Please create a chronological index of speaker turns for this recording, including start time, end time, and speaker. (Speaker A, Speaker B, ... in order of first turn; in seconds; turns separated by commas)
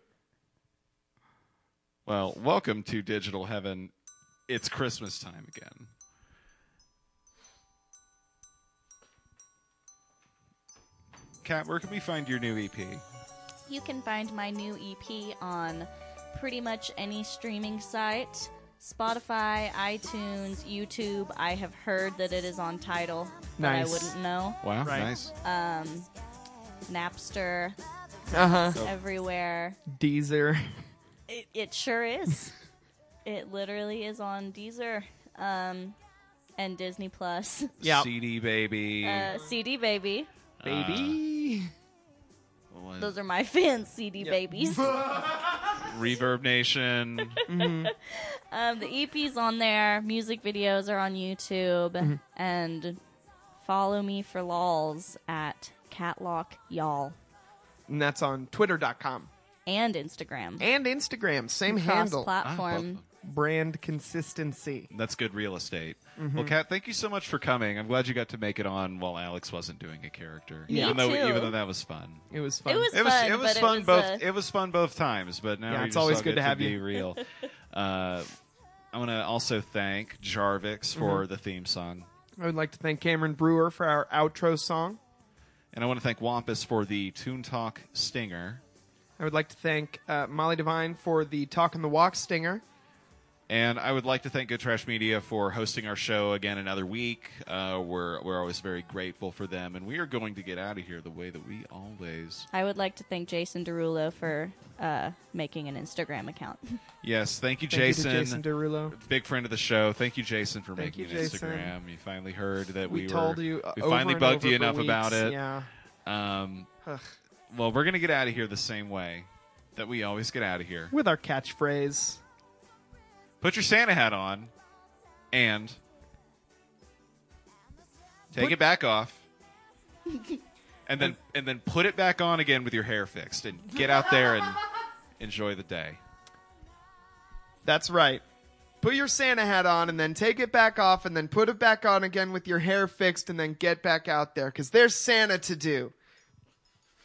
Speaker A: 2.0-3.9, Speaker A: 4.5-5.9, Speaker A: 11.4-13.0, Speaker B: 13.7-24.7, Speaker C: 23.6-24.1, Speaker A: 24.6-25.3, Speaker C: 24.8-25.1, Speaker B: 25.4-26.1, Speaker B: 26.9-27.8, Speaker C: 28.3-28.8, Speaker B: 28.4-29.8, Speaker C: 29.9-30.8, Speaker B: 31.3-32.5, Speaker B: 33.2-36.0, Speaker B: 36.6-37.7, Speaker A: 37.8-39.3, Speaker C: 37.8-38.1, Speaker B: 39.0-40.3, Speaker A: 40.6-41.2, Speaker C: 40.6-41.7, Speaker A: 42.7-43.1, Speaker B: 43.0-45.0, Speaker C: 44.2-45.7, Speaker A: 45.7-47.4, Speaker B: 47.4-53.0, Speaker C: 47.5-47.9, Speaker B: 53.6-57.1, Speaker C: 57.9-59.3, Speaker B: 59.7-60.6, Speaker C: 60.6-62.3, Speaker B: 61.7-63.0, Speaker A: 62.4-63.0, Speaker C: 63.2-64.9, Speaker A: 64.9-72.2, Speaker C: 66.2-66.5, Speaker C: 70.7-71.0, Speaker B: 70.7-71.5, Speaker C: 72.3-72.9, Speaker B: 72.7-74.2, Speaker A: 72.9-78.3, Speaker C: 75.7-76.8, Speaker A: 78.9-82.1, Speaker C: 80.9-81.2, Speaker C: 82.4-85.0, Speaker A: 85.7-88.6, Speaker C: 89.2-92.6, Speaker A: 93.5-102.5, Speaker B: 102.5-106.8, Speaker A: 107.0-115.4, Speaker C: 107.7-108.9, Speaker C: 110.8-111.7, Speaker C: 112.9-115.7, Speaker A: 116.0-116.7, Speaker C: 116.8-117.1, Speaker A: 117.5-120.9, Speaker C: 120.9-122.2, Speaker A: 123.4-124.5, Speaker A: 125.3-125.8, Speaker A: 128.3-129.2, Speaker A: 130.9-134.6, Speaker A: 135.2-136.0, Speaker C: 137.6-138.2, Speaker C: 138.8-145.9